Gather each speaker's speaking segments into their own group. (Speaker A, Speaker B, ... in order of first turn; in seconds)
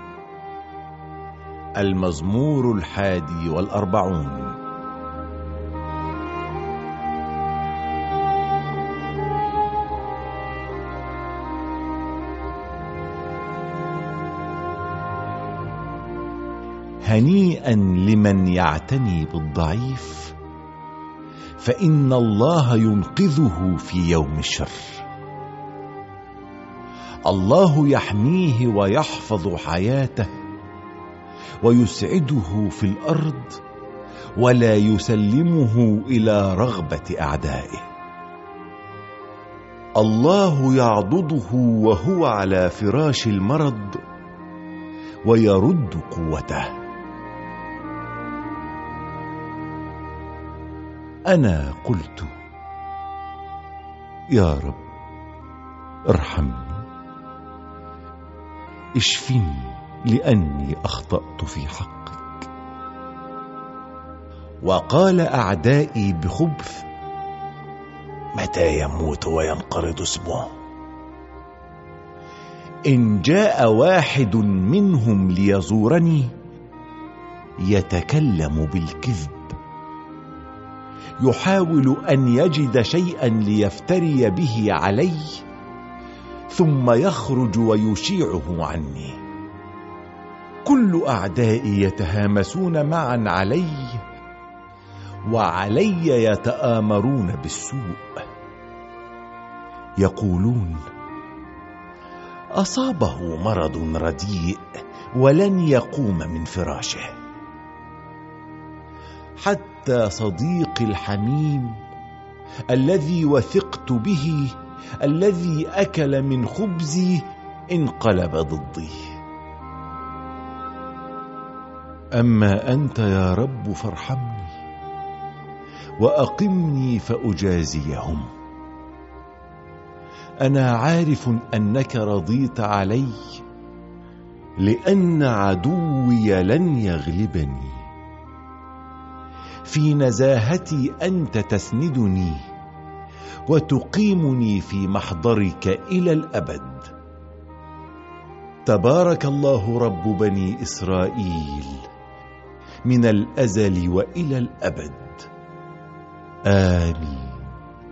Speaker A: 1.8-4.6, 17.0-20.4, 21.6-25.1, 27.3-30.3, 31.6-33.6, 34.4-37.9, 40.0-44.0, 45.2-46.7, 51.3-52.3, 54.3-54.8, 56.1-56.9, 59.0-62.5, 64.6-66.9, 68.3-70.5, 72.9-76.3, 77.6-79.6, 81.2-85.4, 86.5-89.2, 90.7-94.0, 95.3-98.2, 100.0-100.8, 102.6-107.2, 109.4-111.8, 112.7-119.2, 122.2-124.5, 126.0-128.3, 130.4-133.4, 134.6-137.9, 139.7-142.5, 143.5-146.9, 148.7-151.9, 152.8-155.3, 156.5-157.6